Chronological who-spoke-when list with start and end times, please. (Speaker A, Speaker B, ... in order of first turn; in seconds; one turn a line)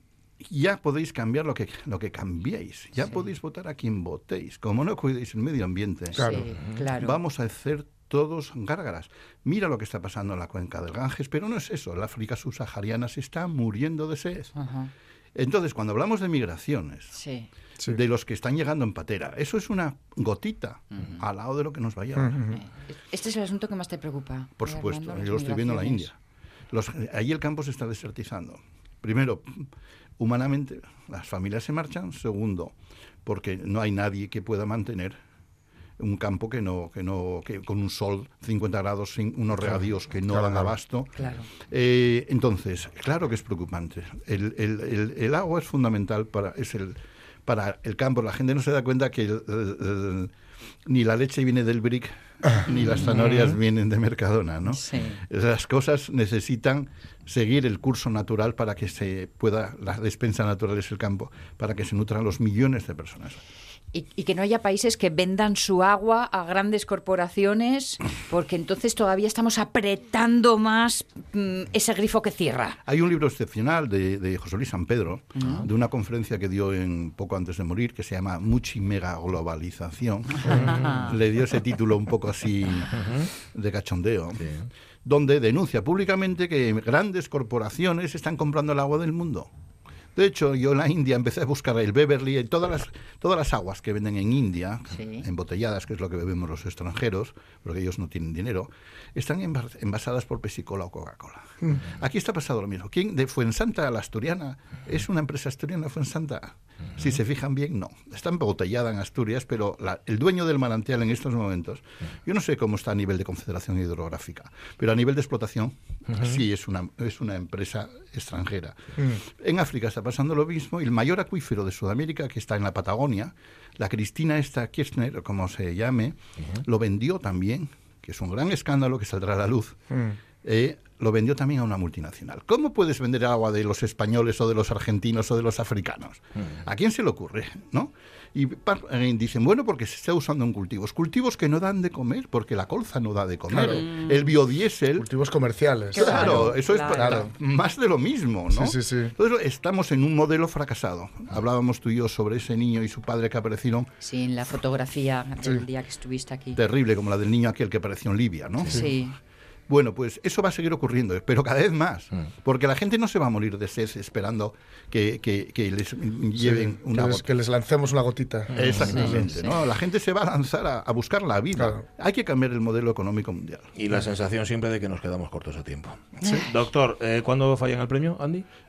Speaker A: 0.4-14.5
Speaker B: 6.2-6.4
Speaker C: 6.2-7.2
Speaker C: 14.5-14.9
Speaker A: 15.3-17.1
Speaker C: 17.1-17.5
Speaker A: 17.8-22.6
Speaker C: 20.9-21.2
Speaker B: 22.2-22.6
Speaker C: 22.5-26.1
Speaker A: 24.6-26.1
Speaker A: 26.7-35.2
Speaker A: 36.0-50.3
Speaker B: 40.3-40.8
Speaker C: 41.1-41.5
Speaker A: 50.9-63.4
Speaker D: 53.0-53.6
Speaker C: 54.7-55.2
Speaker C: 63.9-72.8
Speaker A: 72.8-84.5
Speaker C: 75.3-75.7
Speaker C: 80.4-81.1
Speaker D: 80.5-80.9
Speaker D: 83.0-83.3
Speaker D: 84.4-84.7
Speaker A: 85.0-89.5
Speaker A: 90.1-129.9
Speaker C: 94.9-95.2
Speaker B: 129.9-130.2
Speaker A: 130.4-145.1
Speaker C: 143.5-144.2
Speaker B: 143.5-143.8
Speaker B: 145.0-147.3
Speaker C: 145.9-147.3
Speaker A: 145.9-153.9
Speaker B: 148.5-149.1
Speaker C: 154.0-156.6
Speaker A: 156.6-158.9
Speaker C: 158.7-159.2
Speaker A: 159.7-167.3
Speaker B: 166.4-169.2
Speaker D: 168.5-169.2
Speaker A: 168.6-173.7
Speaker C: 168.7-169.6
Speaker B: 171.5-171.8
Speaker D: 173.8-178.4
Speaker C: 176.2-176.5